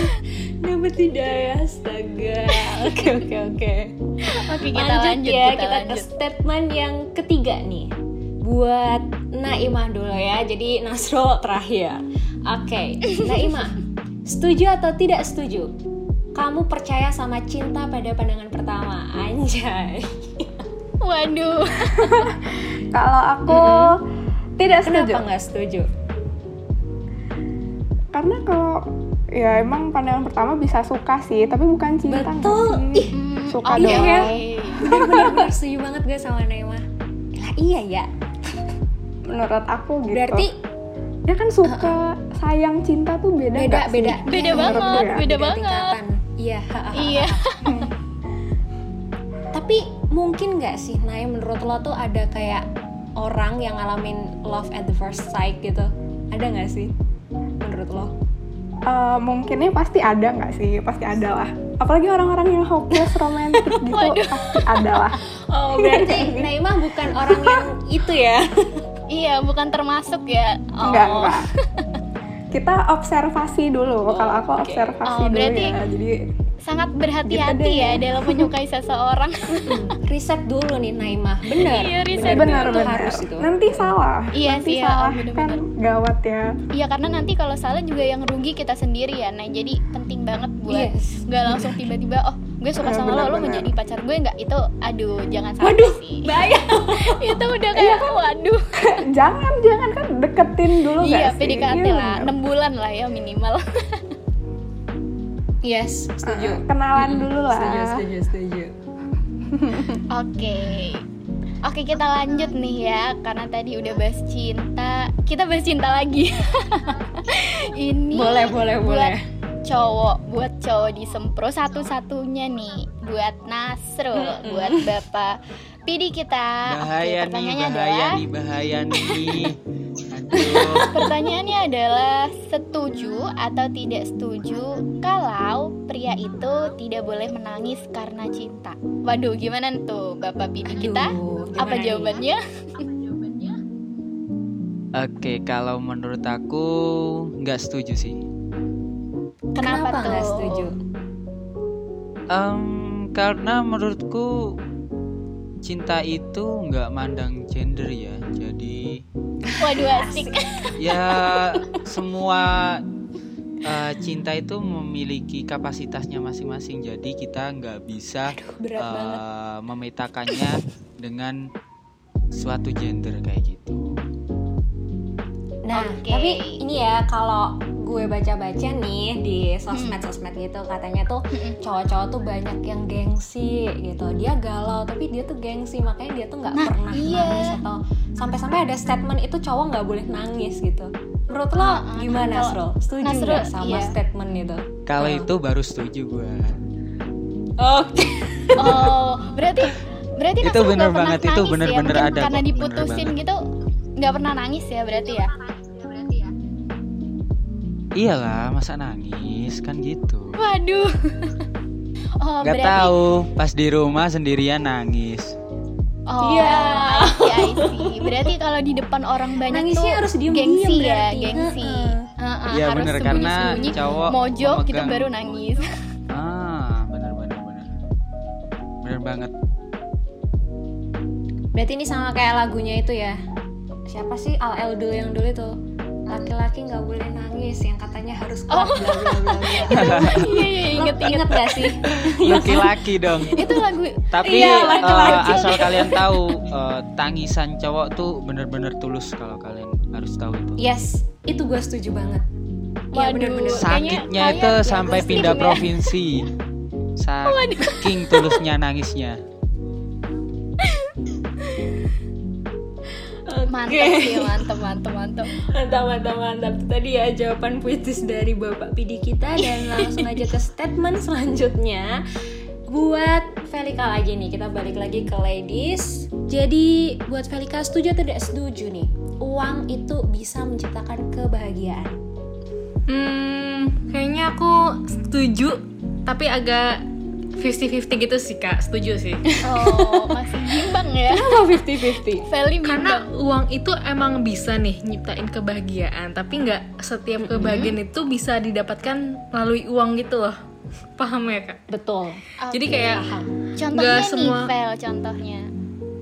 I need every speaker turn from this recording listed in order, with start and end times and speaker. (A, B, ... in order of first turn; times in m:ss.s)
0:00.6-0:07.9 A
0:04.2-0:06.1 B
0:08.4-0:15.7 A
0:16.4-0:20.7 A
0:21.0-0:22.4 B
0:22.1-0:24.0 C
0:23.5-0:24.0 A
0:24.6-0:25.2 C
0:24.8-0:25.9 A
0:28.1-0:35.5 C
0:32.1-0:33.2 A
0:33.1-0:34.9 B
0:33.7-0:38.7 A
0:39.3-0:40.5 C
0:40.1-0:40.6 A
0:41.3-0:45.2 C
0:41.6-0:42.0 A
0:43.5-0:47.8 A
0:44.3-0:46.0 B
0:47.0-0:47.9 B
0:49.5-0:52.6 A
0:53.2-0:56.9 A
0:57.6-0:58.1 A
0:58.9-1:05.2 C
1:02.9-1:03.4 A
1:03.9-1:04.6 B
1:05.3-1:08.9 A
1:05.7-1:06.6 C
1:09.1-1:11.6 B
1:10.8-1:11.5 C
1:12.5-1:16.3 C
1:14.1-1:15.0 A
1:15.1-1:15.8 B
1:16.6-1:19.9 B
1:17.3-1:18.5 C
1:19.5-1:23.8 A
1:21.5-1:23.0 B
1:22.2-1:26.6 C
1:24.3-1:25.6 B
1:26.7-1:39.0 B
1:30.7-1:31.8 A
1:32.8-1:33.7 C
1:35.6-1:37.4 A
1:37.8-1:38.1 C
1:38.8-1:42.3 C
1:41.0-1:44.0 B
1:45.6-1:48.7 A
1:46.2-1:48.0 C
1:49.5-1:50.0 C
1:50.1-1:51.0 B
1:51.6-2:08.2 B
1:58.1-1:59.2 A
2:04.1-2:05.0 A
2:06.7-2:11.1 D
2:10.4-2:23.4 B
2:20.7-2:22.2 A
2:25.0-2:28.2 D
2:29.6-2:30.7 B
2:29.6-2:30.8 A
2:32.3-2:34.6 D
2:35.6-2:39.0 D
2:39.4-2:41.8 A
2:39.6-2:40.8 B
2:40.8-2:42.8 D
2:43.6-2:51.4 D
2:48.3-2:49.2 A
2:52.3-2:53.9 D
2:55.6-3:15.3 A
2:55.7-2:56.6 B
2:59.7-3:00.0 B
3:01.3-3:01.6 B
3:06.5-3:07.6 B
3:11.6-3:14.0 B
3:14.9-3:16.6 D
3:17.6-3:19.0 A
3:18.6-3:23.4 B
3:20.4-3:23.1 D
3:24.0-3:25.3 B
3:28.0-3:30.4 D
3:30.4-3:31.4 B
3:32.2-3:33.0 B
3:32.4-3:35.4 D
3:36.1-3:45.7 B
3:36.2-3:38.3 A
3:39.4-3:42.1 A
3:42.5-3:45.1 D
3:46.1-3:47.7 D
3:48.8-3:49.3 D
3:51.5-3:53.2 A
3:53.9-3:55.6 A
3:56.1-4:03.7 A
3:58.5-4:01.6 B
3:59.8-4:00.3 D
4:01.8-4:03.5 D
4:03.3-4:06.0 B
4:04.1-4:10.6 D
4:04.2-4:06.2 A
4:10.6-4:12.2 A
4:12.9-4:13.9 A
4:12.9-4:16.0 B
4:13.5-4:16.3 D
4:14.9-4:15.4 A
4:17.0-4:19.2 D
4:17.2-4:18.4 B
4:20.6-4:21.0 B
4:23.3-4:24.5 A
4:23.5-4:25.3 B
4:25.4-4:32.0 A
4:29.6-4:30.1 B
4:32.7-4:42.0 A
4:42.9-4:46.8 E
4:47.4-4:49.2 E
4:49.3-4:50.2 A
4:49.4-4:51.4 B
4:51.0-4:52.3 A
4:52.2-4:53.1 B
4:52.6-5:00.4 E
4:57.2-4:57.8 A
5:01.0-5:01.6 E
5:01.7-5:02.2 A
5:02.4-5:05.5 B
5:02.5-5:03.1 E
5:02.8-5:03.4 A
5:03.7-5:04.5 E